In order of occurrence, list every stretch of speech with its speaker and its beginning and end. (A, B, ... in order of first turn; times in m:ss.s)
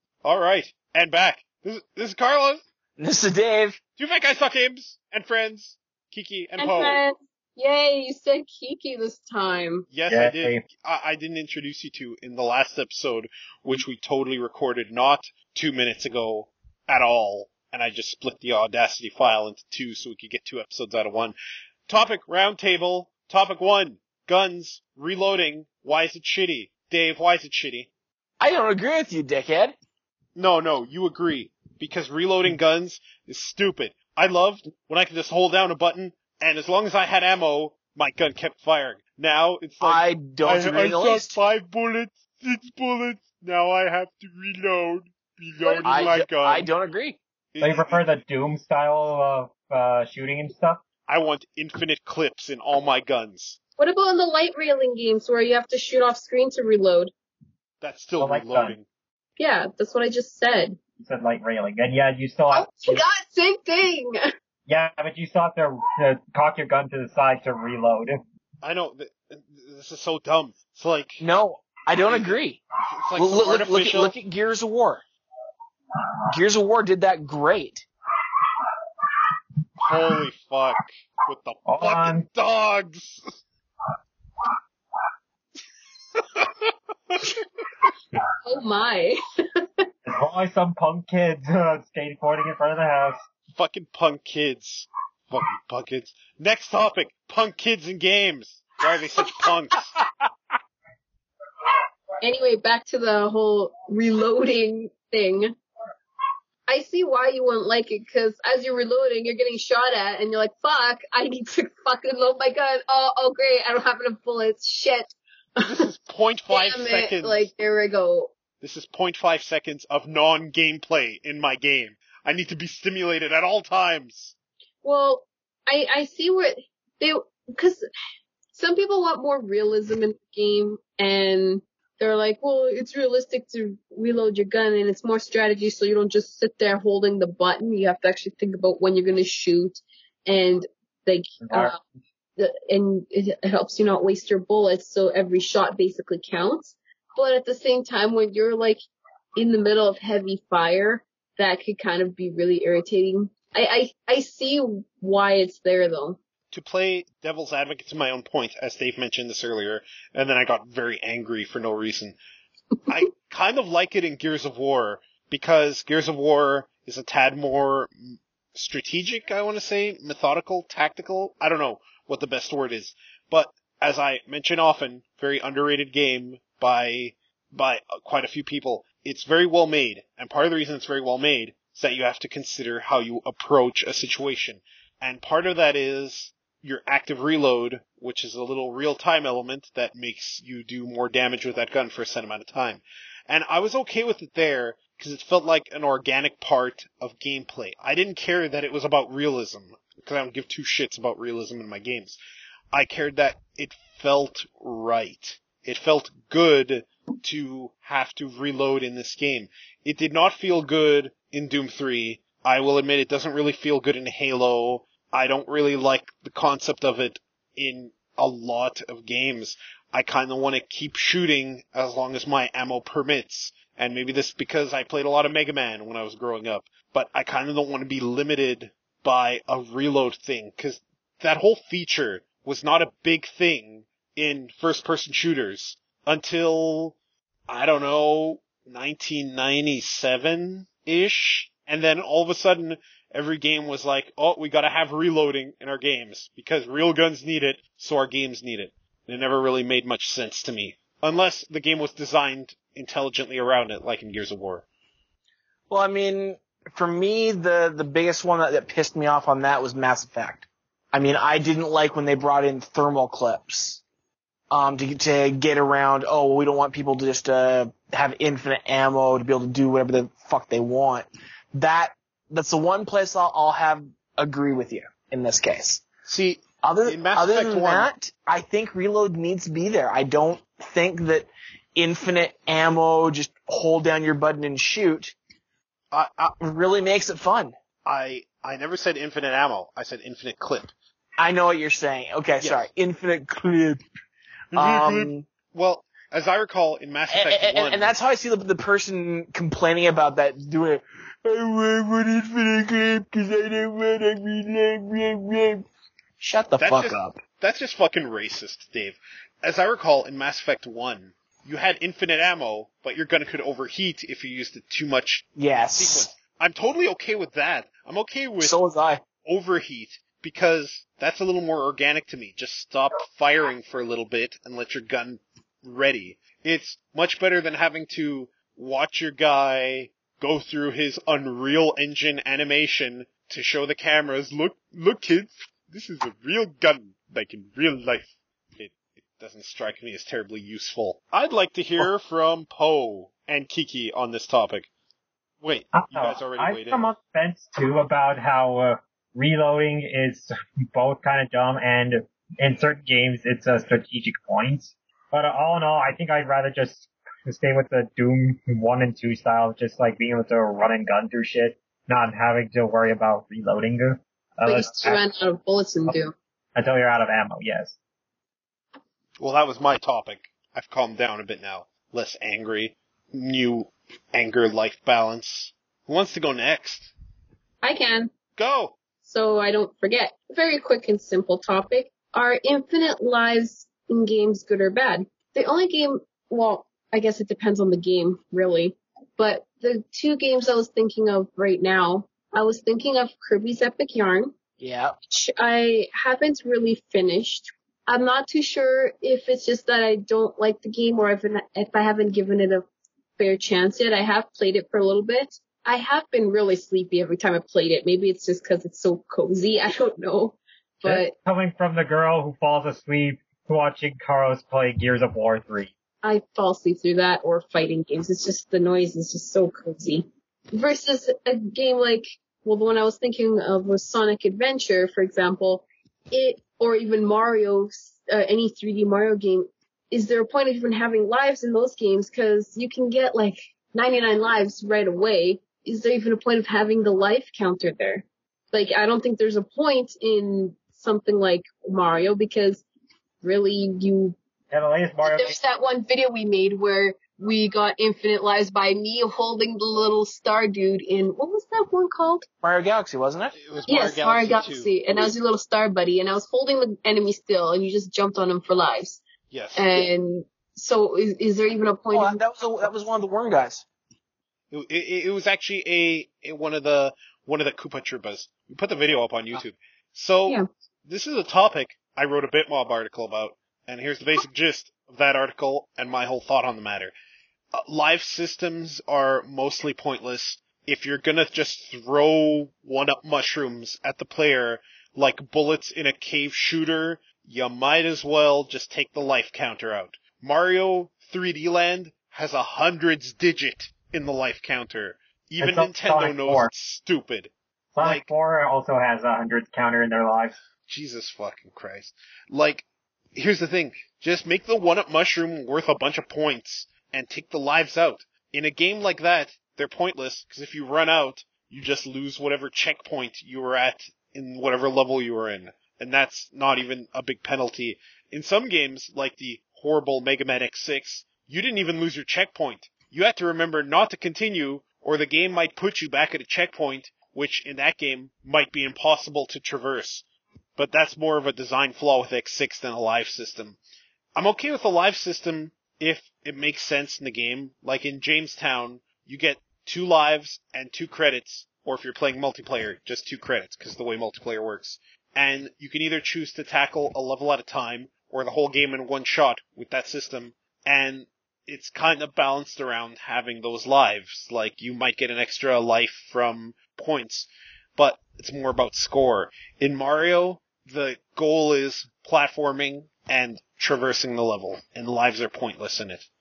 0:00.2-0:02.6 A
0:03.0-0:03.8 B
0:04.0-0:07.0 A
0:06.6-0:09.9 C
0:09.9-0:21.4 A
0:10.1-0:10.6 D
0:21.9-0:27.9 A
0:28.4-0:29.8 B
0:30.4-0:46.7 A
0:39.8-0:41.4 B
0:45.6-0:46.1 C
0:45.8-0:47.2 B
0:47.5-0:48.0 A
0:47.6-0:50.8 D
0:51.1-0:53.6 A
0:53.8-0:57.1 C
0:57.8-0:58.9 A
0:58.2-0:58.8 D
0:59.4-1:00.8 C
1:01.0-1:03.0 D
1:02.5-1:04.2 C
1:04.7-1:08.2 D
1:08.6-1:11.2 A
1:11.2-1:12.6 B
1:12.0-1:12.4 A
1:12.9-1:14.2 A
1:13.2-1:15.0 B
1:16.3-1:17.8 B
1:19.8-1:23.2 A
1:21.7-1:22.3 D
1:26.2-1:27.2 A
1:28.5-1:29.6 C
1:30.1-1:33.2 D
1:33.5-1:40.0 A
1:42.2-1:45.6 C
1:46.7-1:55.8 C
1:55.6-1:57.5 A
1:56.5-1:58.3 C
1:58.6-2:04.4 A
2:04.8-2:07.8 C
2:08.5-2:21.8 C
2:21.5-2:21.8 D
2:22.4-2:28.8 C
2:29.4-2:36.2 C
2:36.5-2:42.2 A
2:42.9-3:22.2 A
3:22.7-3:57.0 A
3:57.5-4:14.7 A
4:15.7-4:23.8 B
4:24.5-4:35.8 B
4:36.1-4:37.9 A
4:36.6-4:45.2 B
4:45.9-4:46.3 A
4:46.3-4:47.6 B
4:47.8-4:50.7 A
4:51.2-4:53.8 B
4:52.4-4:52.7 A
4:54.5-4:58.0 A
4:54.5-4:55.3 B
4:57.1-5:05.7 B
5:06.2-5:07.2 B
5:06.6-5:18.6 A
5:15.4-5:16.1 B
5:18.4-5:19.0 B
5:19.2-5:44.7 A
5:45.4-5:46.9 A
5:45.7-6:05.0 D
6:04.4-6:06.1 C
6:06.6-6:07.8 D
6:09.2-6:16.9 A
6:17.6-6:18.1 C
6:18.4-6:18.8 A
6:19.0-6:34.3 C
6:34.6-6:35.0 B
6:35.1-6:42.6 C
6:43.2-6:51.2 C
6:50.8-6:55.7 D
6:56.0-7:22.6 C
7:23.2-7:24.2 C
7:24.5-7:25.4 D
7:25.0-7:32.3 C
7:32.4-7:33.4 B
7:33.4-7:34.8 A
7:33.7-7:39.0 C
7:39.3-7:39.7 A
7:39.6-7:42.2 C
7:41.9-7:43.6 B
7:44.5-7:56.9 A
7:57.5-8:18.1 A
8:15.4-8:16.5 D
8:17.8-8:20.4 D
8:20.7-8:50.0 A
8:50.6-8:53.6 A
8:54.2-9:26.1 A